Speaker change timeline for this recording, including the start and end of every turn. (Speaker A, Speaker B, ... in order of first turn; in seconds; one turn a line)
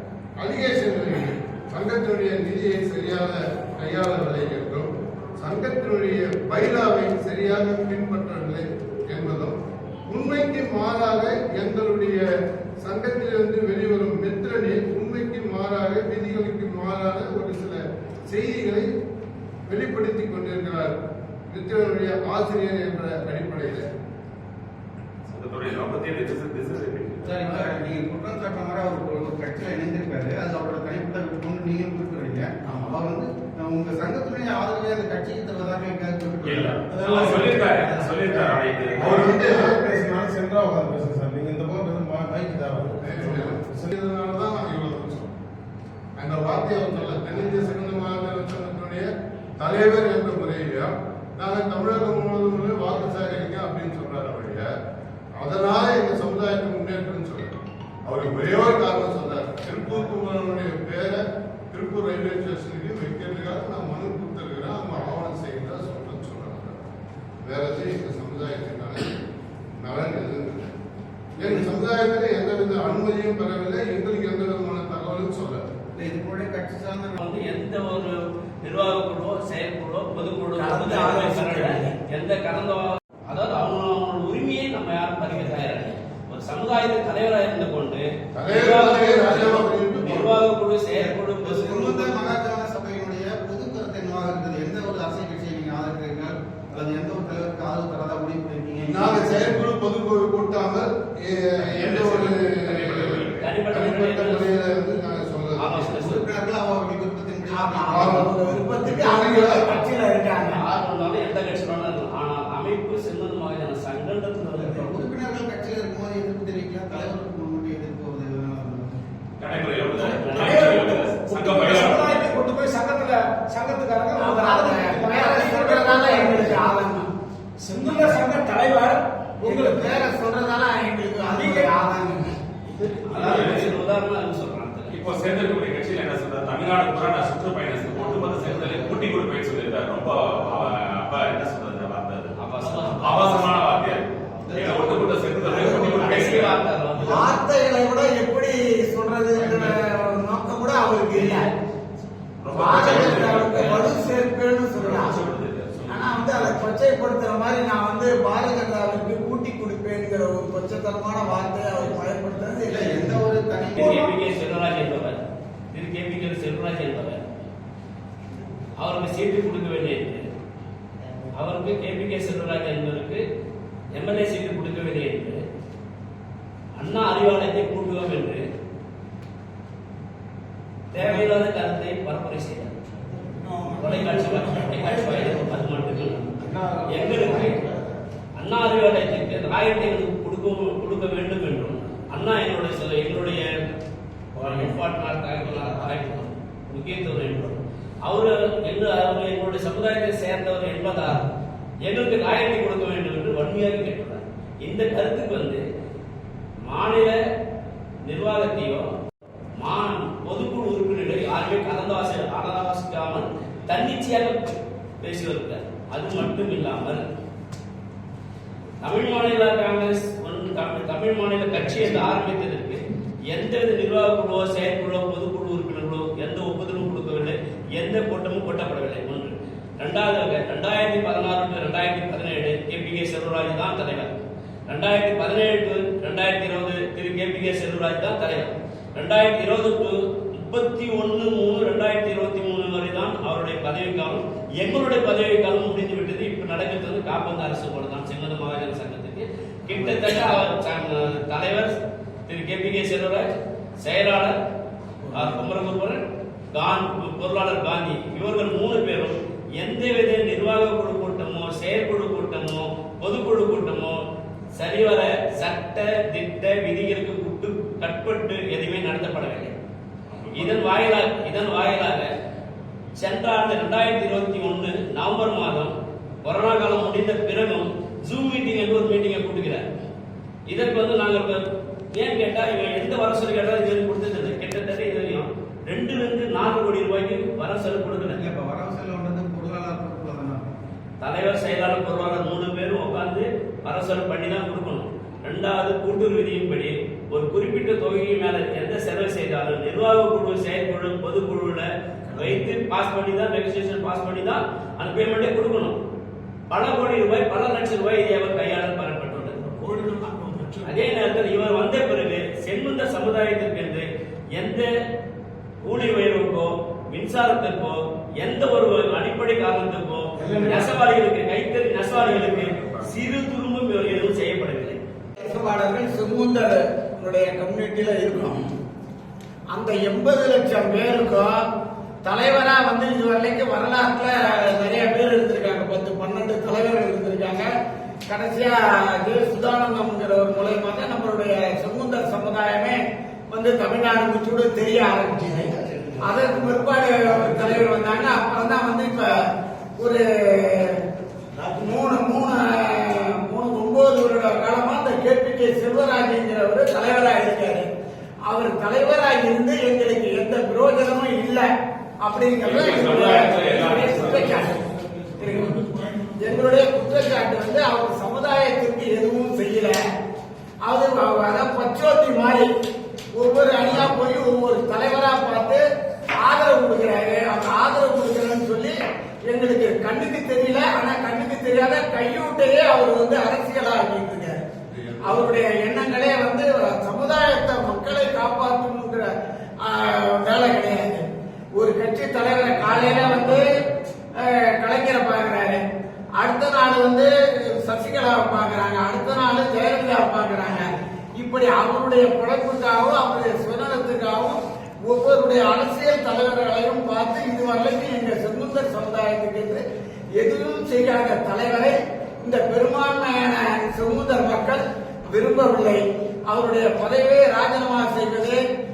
Speaker A: 0.4-9.6
Speaker A: 10.1-12.2
Speaker A: 12.8-18.9
Speaker A: 19.7-20.9
Speaker A: 21.5-23.9
Speaker B: 25.3-27.6
Speaker C: 27.2-38.6
Speaker B: 36.4-39.3
Speaker A: 38.9-39.9
Speaker D: 39.8-43.2
Speaker A: 43.0-45.3
Speaker A: 46.2-54.7
Speaker A: 55.4-57.5
Speaker A: 58.0-66.8
Speaker A: 67.4-69.1
Speaker A: 69.8-70.7
Speaker A: 71.4-75.6
Speaker C: 75.9-77.2
Speaker E: 77.2-92.3
Speaker F: 80.5-81.9
Speaker A: 88.3-90.4
Speaker C: 90.9-99.6
Speaker A: 98.8-106.0
Speaker B: 101.6-103.5
Speaker E: 103.4-104.5
Speaker E: 105.6-106.3
Speaker C: 105.9-108.6
Speaker F: 107.5-110.6
Speaker A: 107.9-109.7
Speaker E: 110.4-115.0
Speaker C: 114.6-119.0
Speaker B: 119.4-122.3
Speaker E: 120.2-120.6
Speaker G: 120.3-126.7
Speaker F: 124.1-127.1
Speaker G: 127.6-130.1
Speaker F: 127.9-128.5
Speaker F: 129.4-132.3
Speaker G: 131.2-132.1
Speaker E: 133.0-135.0
Speaker B: 133.1-133.7
Speaker B: 134.9-146.6
Speaker C: 138.0-139.0
Speaker E: 142.4-143.5
Speaker C: 144.4-146.3
Speaker F: 145.6-146.2
Speaker E: 146.0-147.2
Speaker F: 147.0-151.5
Speaker C: 149.4-149.6
Speaker B: 152.4-153.9
Speaker F: 152.5-155.2
Speaker B: 154.8-156.5
Speaker F: 155.9-163.0
Speaker C: 162.6-164.1
Speaker E: 163.8-165.2
Speaker E: 165.7-167.2
Speaker E: 168.8-170.3
Speaker E: 171.3-173.2
Speaker E: 173.9-175.4
Speaker E: 176.8-178.4
Speaker E: 180.9-182.8
Speaker G: 183.5-184.2
Speaker E: 183.8-186.3
Speaker C: 184.8-185.7
Speaker C: 186.4-187.8
Speaker E: 186.8-187.6
Speaker E: 188.4-193.6
Speaker E: 194.4-201.2
Speaker E: 201.8-205.6
Speaker E: 206.6-207.2
Speaker E: 208.1-208.9
Speaker E: 209.6-217.0
Speaker E: 218.8-222.8
Speaker E: 223.3-234.1
Speaker E: 234.7-251.7
Speaker E: 252.2-253.3
Speaker E: 253.8-254.3
Speaker E: 255.1-256.0
Speaker E: 256.5-264.0
Speaker E: 264.5-269.5
Speaker B: 270.1-270.6
Speaker E: 270.4-272.1
Speaker E: 273.0-279.6
Speaker E: 280.5-288.2
Speaker C: 288.1-290.5
Speaker E: 291.0-305.8
Speaker E: 306.5-309.7
Speaker G: 309.7-310.6
Speaker E: 310.6-314.7
Speaker E: 315.6-324.8
Speaker B: 321.9-322.9
Speaker F: 325.2-328.4
Speaker F: 329.5-331.4
Speaker F: 332.0-337.5
Speaker F: 338.1-349.3
Speaker F: 349.8-350.8
Speaker F: 351.4-357.6
Speaker F: 358.3-361.5
Speaker F: 362.0-364.6
Speaker B: 362.4-364.6
Speaker F: 365.2-365.6
Speaker F: 366.2-369.8
Speaker F: 370.6-372.5
Speaker F: 373.1-375.6
Speaker F: 376.2-378.8
Speaker F: 379.3-384.4
Speaker A: 384.7-385.3
Speaker F: 385.0-389.1
Speaker F: 389.6-391.0
Speaker F: 391.6-395.6
Speaker F: 396.2-409.6
Speaker F: 410.1-418.4